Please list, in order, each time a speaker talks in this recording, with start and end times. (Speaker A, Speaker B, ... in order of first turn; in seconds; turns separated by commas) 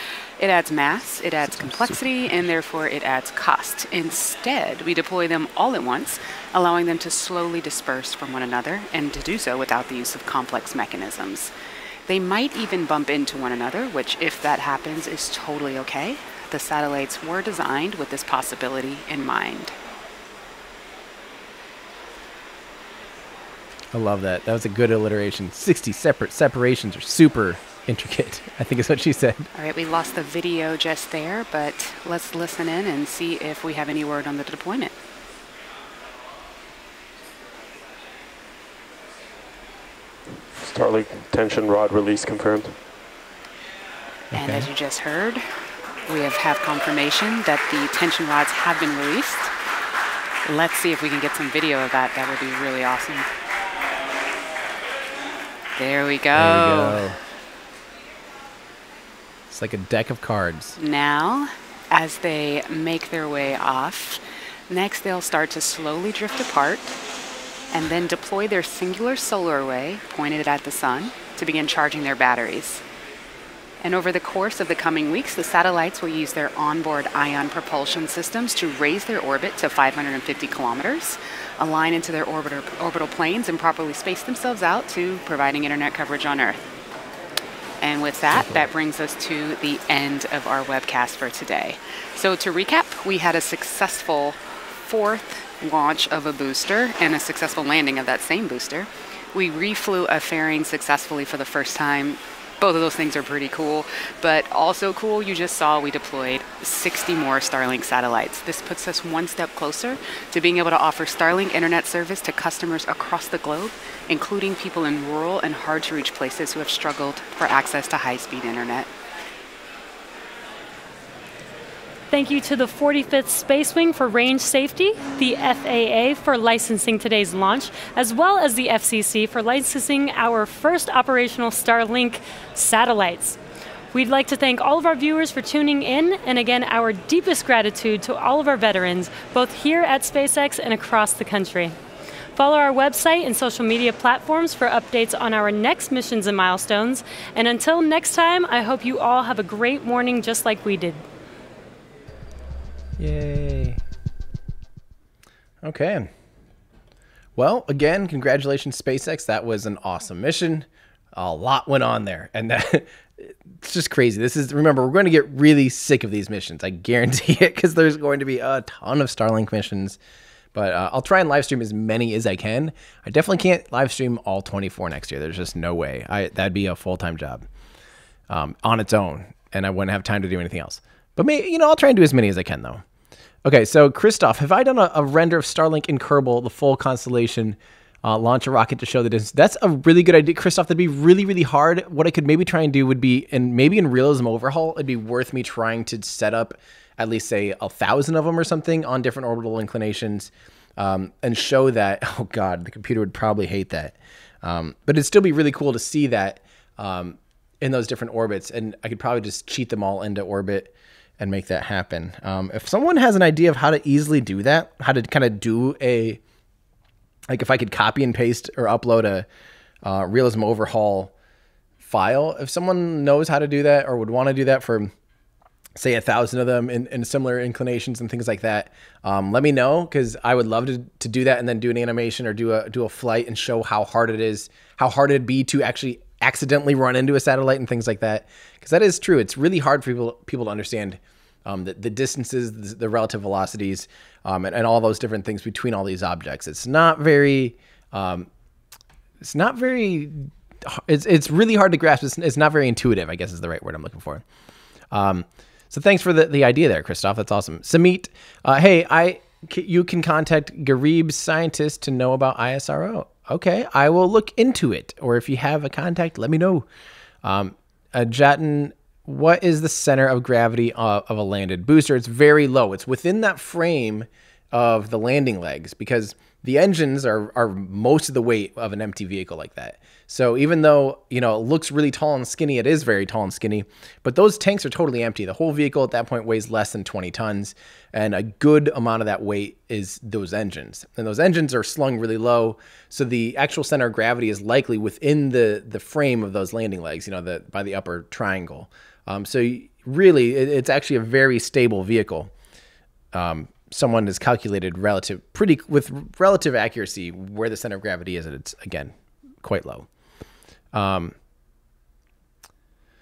Speaker A: 0.4-11.5, Speaker B: 1.4-2.2, Speaker A: 12.1-19.7, Speaker B: 23.9-29.5, Speaker A: 29.6-34.9, Speaker C: 40.5-42.8, Speaker A: 44.3-45.4, Speaker B: 44.3-44.7, Speaker A: 46.1-49.5, Speaker A: 50.5-53.3, Speaker A: 55.8-57.0, Speaker B: 56.3-57.2, Speaker B: 59.5-60.8, Speaker A: 60.8-67.0, Speaker A: 67.7-72.8, Speaker A: 73.8-86.7, Speaker A: 87.8-118.9, Speaker B: 88.3-88.7, Speaker D: 122.1-133.4, Speaker D: 133.9-141.8, Speaker D: 142.4-151.1, Speaker B: 153.0-153.8, Speaker B: 155.6-156.1, Speaker B: 157.4-170.0, Speaker B: 170.5-177.4, Speaker B: 178.3-182.8, Speaker B: 183.4-216.2, Speaker B: 217.3-219.3, Speaker B: 219.8-221.1, Speaker B: 221.8-224.9, Speaker B: 225.8-248.3, Speaker B: 249.2-254.2, Speaker B: 254.9-266.7, Speaker B: 267.2-302.3, Speaker B: 303.1-309.9, Speaker B: 310.7-311.1